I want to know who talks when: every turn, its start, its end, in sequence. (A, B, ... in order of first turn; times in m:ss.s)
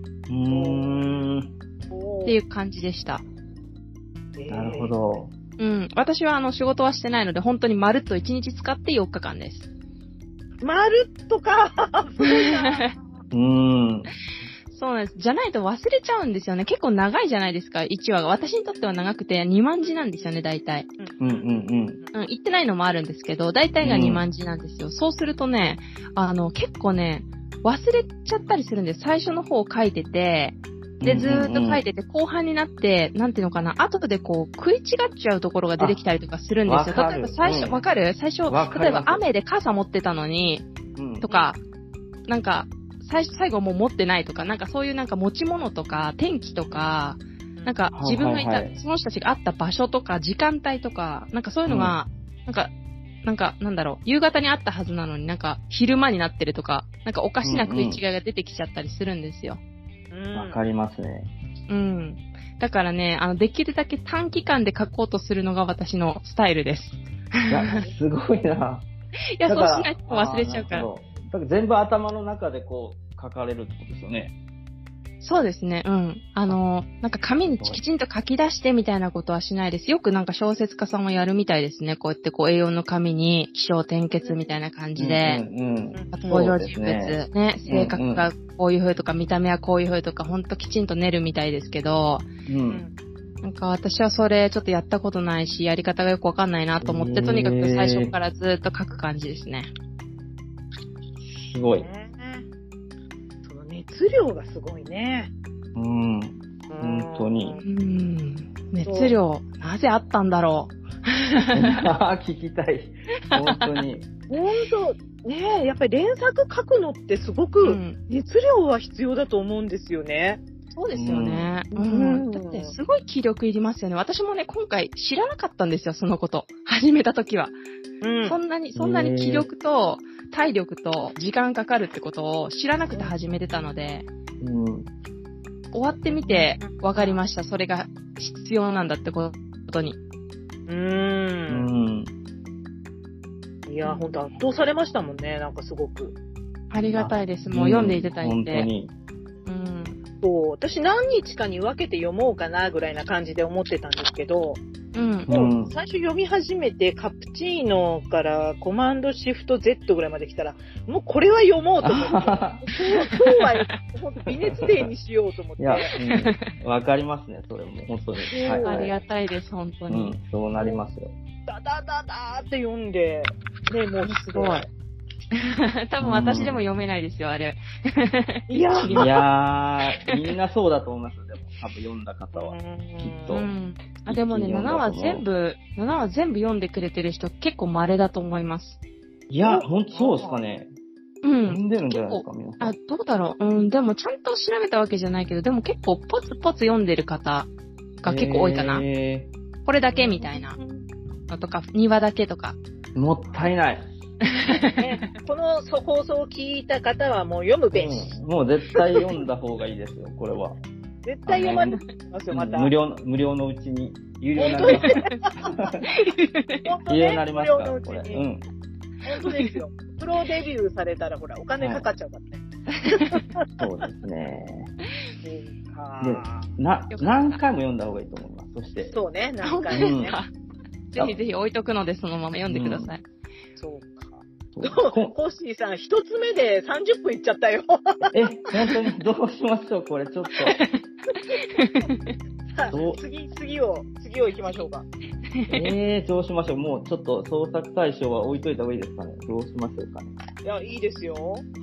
0:00.3-0:01.5 A
0:00.5-0:01.1 B
0:01.9-0:02.4 B
0:02.2-0:03.2 C
0:04.4-0:04.9 B
0:04.5-0:05.3 A
0:05.6-0:09.7 C
0:10.6-0:12.9 B
0:12.2-0:13.0 C
0:13.3-0:14.1 A
0:14.7-0:20.9 C
0:21.0-0:21.5 B
0:21.2-0:22.0 A
0:22.1-0:40.7 C
0:23.8-0:24.2 A
0:31.0-0:31.8 A
0:36.7-0:37.8 A
0:38.5-0:39.2 A
0:41.0-0:41.3 A
0:41.2-0:41.6 C
0:42.3-0:52.7 C
0:47.9-0:48.8 A
0:51.7-0:52.0 A
0:53.2-0:59.6 C
0:57.4-0:58.0 A
1:00.1-1:00.6 B
1:00.3-1:01.3 A
1:01.7-1:07.8 C
1:07.5-1:08.9 A
1:09.4-1:10.9 C
1:09.4-1:14.3 A
1:15.2-1:25.4 C
1:17.5-1:17.8 A
1:24.2-1:24.6 B
1:25.0-1:28.3 A
1:25.9-1:26.3 B
1:26.1-1:32.3 C
1:32.5-1:32.8 A
1:32.7-1:32.9 B
1:33.4-1:39.7 C
1:36.8-1:38.2 A
1:41.2-1:41.9 A
1:41.8-1:42.4 B
1:43.4-1:45.3 B
1:45.8-1:47.6 A
1:46.7-1:47.6 B
1:47.6-1:51.8 C
1:48.9-1:49.2 B
1:51.5-1:54.1 A
1:53.3-1:53.6 C
1:54.3-2:00.4 B
1:57.6-1:58.0 C
2:00.7-2:07.5 C
2:00.9-2:01.5 A
2:01.8-2:02.7 B
2:08.0-2:08.4 B
2:08.2-2:14.1 C
2:08.8-2:09.5 A
2:14.4-2:14.9 A
2:15.7-2:20.0 C
2:16.1-2:17.2 B
2:20.7-2:21.7 B
2:21.5-2:22.1 A
2:23.7-2:26.2 B
2:23.8-2:24.2 C
2:26.7-2:28.7 C
2:26.8-2:28.9 A
2:29.5-2:30.0 C
2:30.2-2:34.6 B
2:34.9-2:35.3 C
2:35.3-2:46.0 B
2:35.3-2:35.7 A
2:41.8-2:42.6 A
2:42.7-2:43.8 C
2:44.3-2:44.9 A
2:45.6-2:48.9 A
2:46.0-2:46.5 C
2:48.3-2:48.9 B
2:48.6-2:50.2 C
2:49.9-2:51.1 A
2:51.5-2:54.7 B
2:54.0-2:54.7 C
2:55.3-2:59.2 C
2:56.0-2:56.6 A
2:58.5-2:59.2 B
2:58.9-3:03.5 A
3:02.3-3:03.4 B
3:03.3-3:08.8 C
3:04.1-3:05.2 A
3:09.3-3:10.7 A
3:09.4-3:10.4 B
3:11.2-3:17.5 C
3:11.5-3:12.8 A
3:18.0-3:18.8 C
3:18.0-3:19.3 A
3:19.6-3:20.6 C
3:19.9-3:20.9 B
3:21.3-3:22.6 C
3:23.0-3:23.9 A
3:24.3-3:24.9 C
3:24.7-3:28.1 B
3:27.7-3:30.6 A
3:31.0-3:32.7 B
3:31.3-3:31.8 A
3:32.3-3:35.9 A
3:34.4-3:35.4 B
3:34.5-3:35.3 C
3:35.9-3:36.7 C
3:36.6-3:38.2 B
3:36.9-3:38.4 A
3:39.0-3:43.4 B
3:39.2-3:39.6 C
3:41.6-3:41.9 A
3:42.7-3:43.2 C
3:43.6-3:44.7 A
3:45.2-3:46.5 B
3:46.0-3:48.9 A
3:46.9-3:47.4 C
3:48.9-3:50.2 B
3:49.4-3:50.3 C
3:49.7-3:50.2 A
3:50.9-3:53.0 C
3:52.5-3:52.9 A
3:53.6-3:58.1 B
3:54.5-3:55.1 A
3:58.1-4:00.6 A
4:00.4-4:02.2 C
4:02.5-4:04.8 B
4:02.7-4:03.0 A
4:05.3-4:05.7 C
4:05.5-4:10.2 A
4:10.4-4:11.5 B